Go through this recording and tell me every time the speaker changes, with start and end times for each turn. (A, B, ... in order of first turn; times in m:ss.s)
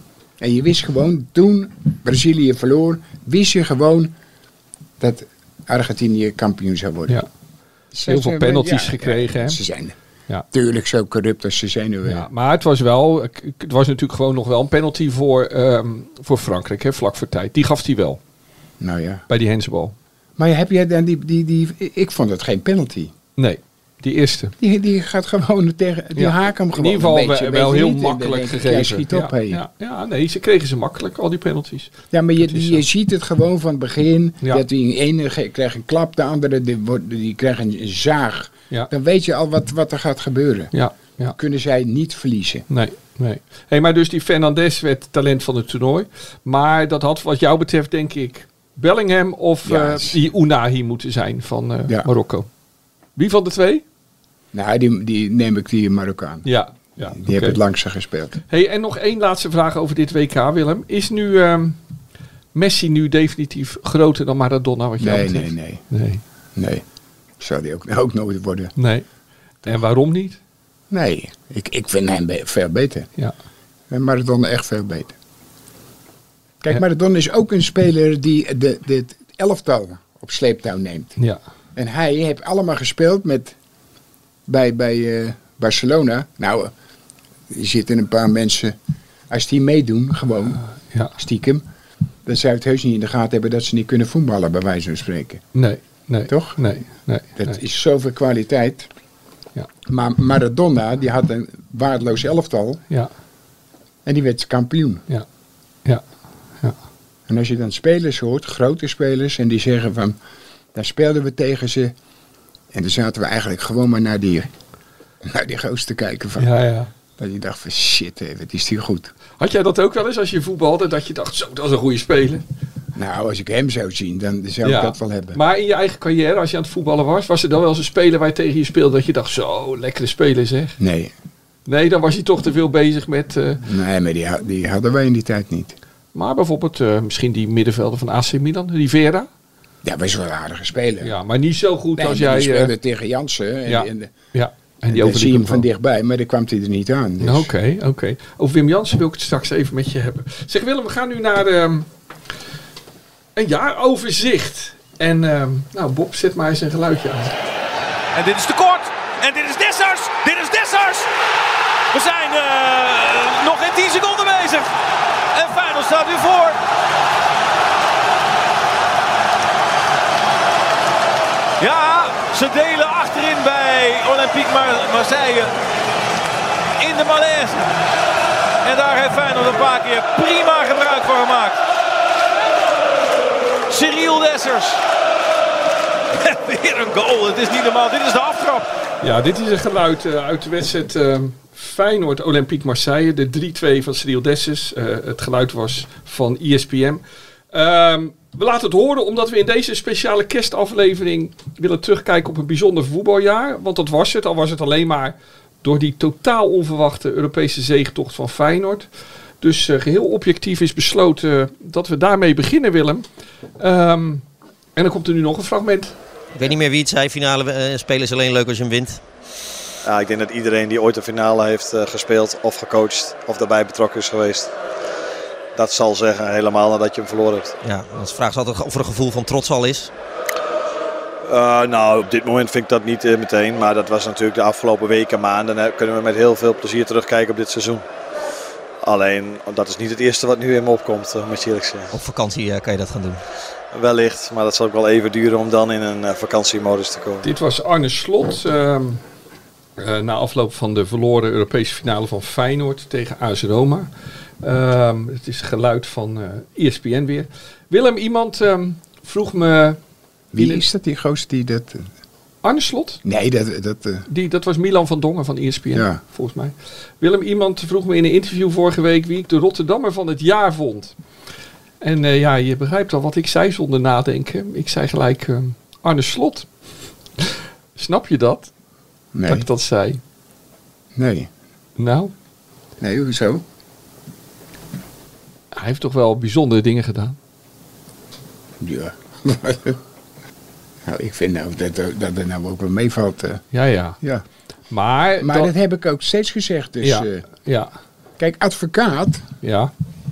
0:00.4-0:04.1 A
0:05.0-0:07.2 A
0:07.9-0:10.0 A
0:08.1-0:09.6 B
0:10.5-0:12.3 A
0:12.1-0:18.2 B
0:18.8-0:19.2 A
0:19.3-0:20.0 B
0:20.4-0:23.1 A
0:23.4-0:24.5 B
0:24.6-0:29.6 A
0:26.2-0:32.8 B
0:32.1-0:40.7 A
0:40.7-0:41.4 B
0:41.4-0:42.7 A
0:42.7-0:52.5 B
0:49.6-0:50.2 A
0:53.2-0:53.8 B
0:54.5-0:56.5 A
0:56.4-0:57.6 B
0:57.0-0:58.4 A
0:58.5-1:01.8 B
1:02.5-1:06.2 B
1:05.0-1:05.8 A
1:06.6-1:06.8 A
1:07.4-1:08.7 A
1:08.8-1:09.1 B
1:09.6-1:10.4 B
1:10.9-1:13.1 A
1:13.9-1:15.2 A
1:16.6-1:21.2 A
1:21.8-1:23.6 A
1:24.5-1:26.7 A
1:27.5-1:28.8 A
1:29.3-1:30.6 A
1:30.9-1:31.2 B
1:31.2-1:31.6 A
1:32.3-1:35.4 A
1:35.6-1:37.6 B
1:36.3-1:36.6 A
1:37.4-1:38.9 A
1:39.9-1:42.8 A
1:44.0-1:45.0 A
1:47.3-1:50.2 A
1:50.7-1:51.9 A
1:52.7-1:54.5 A
1:55.2-1:56.5 A
1:56.4-1:56.9 B
1:57.2-1:59.1 A
1:59.4-2:02.4 B
2:03.0-2:05.4 A
2:04.6-2:10.8 B
2:10.8-2:11.1 A
2:11.7-2:13.6 B
2:13.6-2:15.8 A
2:16.1-2:19.3 B
2:19.8-2:21.2 A
2:21.0-2:22.7 B
2:22.0-2:24.1 A
2:23.7-2:25.6 B
2:24.9-2:27.5 A
2:27.2-2:31.9 B
2:33.4-2:37.4 B
2:38.1-2:41.1 C
2:41.9-2:44.7 C
2:45.3-2:46.6 C
2:51.6-2:55.5 C
2:56.8-2:57.7 C
2:58.6-3:01.6 C
3:03.7-3:04.8 C
3:06.2-3:08.7 C
3:09.0-3:28.9 B
3:29.4-3:33.0 B
3:33.6-3:34.2 B
3:34.8-3:35.9 B
3:36.4-3:39.0 D
3:39.8-3:44.5 E
3:45.6-3:47.6 E
3:47.6-3:49.9 D
3:51.2-3:57.8 E
3:58.8-4:01.9 E
4:01.9-4:03.2 D
4:03.7-4:07.2 E
4:07.2-4:09.0 B
4:09.8-4:13.9 B
4:14.4-4:19.8 B
4:20.3-4:21.9 A
4:20.4-4:20.6 B
4:22.4-4:23.0 B
4:23.0-4:24.1 A
4:24.1-4:30.9 B
4:25.7-4:26.0 A
4:31.8-4:36.5 B
4:37.2-4:38.5 B
4:39.1-4:39.5 A
4:39.2-4:40.0 B
4:41.0-4:41.3 A
4:41.8-4:42.1 B
4:42.8-4:43.4 A
4:45.5-4:47.2 B
4:48.6-4:49.8 A
4:50.8-4:53.4 A
4:53.5-4:54.0 B
4:54.7-4:55.5 B
4:55.2-4:57.2 A
4:56.8-4:57.7 B
4:58.2-4:59.2 A
4:59.4-4:59.7 B